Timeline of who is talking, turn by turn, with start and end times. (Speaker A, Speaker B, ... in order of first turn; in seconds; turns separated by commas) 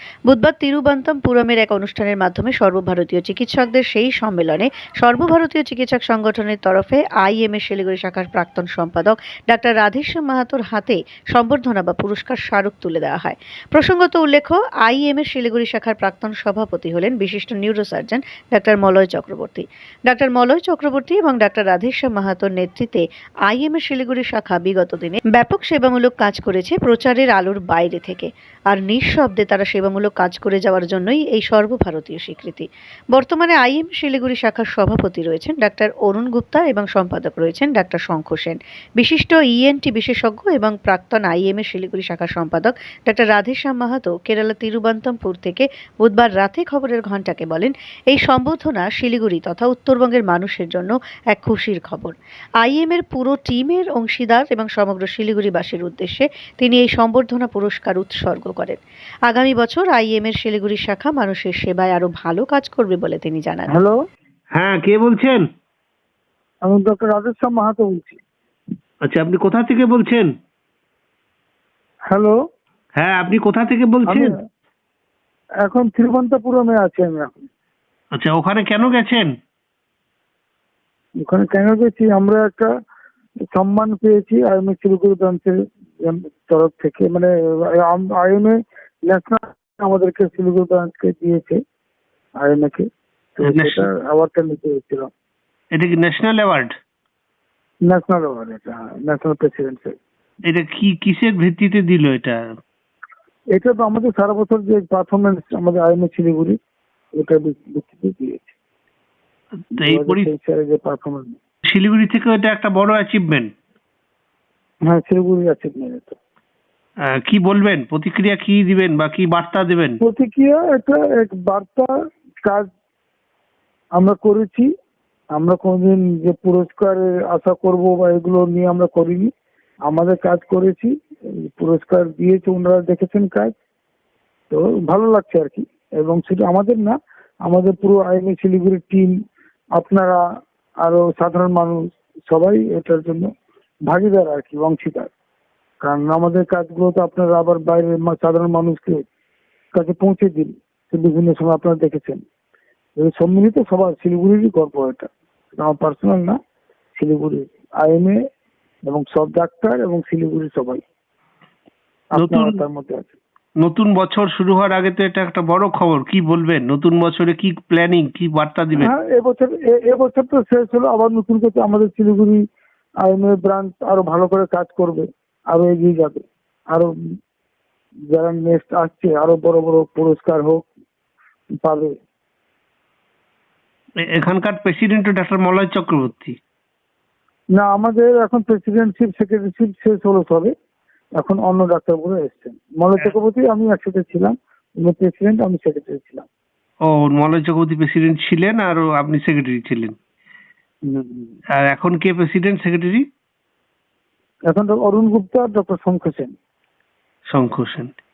Speaker A: 0.3-63.7, Speaker B: 63.7-64.0, Speaker C: 64.5-65.4, Speaker B: 66.7-68.2, Speaker C: 69.0-70.3, Speaker B: 72.1-72.4, Speaker C: 73.0-74.4, Speaker B: 74.1-74.4, Speaker B: 75.6-77.3, Speaker C: 78.2-79.3, Speaker B: 81.2-82.7, Speaker B: 83.5-91.6, Speaker B: 92.4-95.1, Speaker C: 93.5-93.8, Speaker C: 95.7-96.7, Speaker B: 97.9-100.0, Speaker C: 100.5-102.4, Speaker B: 103.5-106.6, Speaker B: 107.2-108.5, Speaker C: 109.7-110.3, Speaker B: 109.8-111.4, Speaker C: 111.7-113.5, Speaker B: 114.9-116.2, Speaker C: 117.1-120.0, Speaker B: 120.0-122.7, Speaker B: 124.0-124.7, Speaker B: 125.3-129.3, Speaker B: 129.9-133.5, Speaker B: 134.5-139.1, Speaker B: 139.8-140.2, Speaker B: 140.8-143.3, Speaker B: 143.9-145.1, Speaker B: 145.8-149.0, Speaker B: 149.7-152.2, Speaker B: 153.0-156.4, Speaker B: 156.9-158.2, Speaker B: 158.9-160.8, Speaker B: 162.1-163.2, Speaker C: 162.2-162.6, Speaker C: 163.6-168.9, Speaker B: 168.8-172.4, Speaker B: 173.0-176.9, Speaker B: 178.1-180.7, Speaker B: 181.6-181.9, Speaker C: 184.0-186.4, Speaker B: 187.6-190.5, Speaker B: 191.2-196.3, Speaker C: 196.9-199.9, Speaker B: 200.9-201.3, Speaker C: 201.7-203.0, Speaker B: 204.5-206.3, Speaker C: 207.3-207.9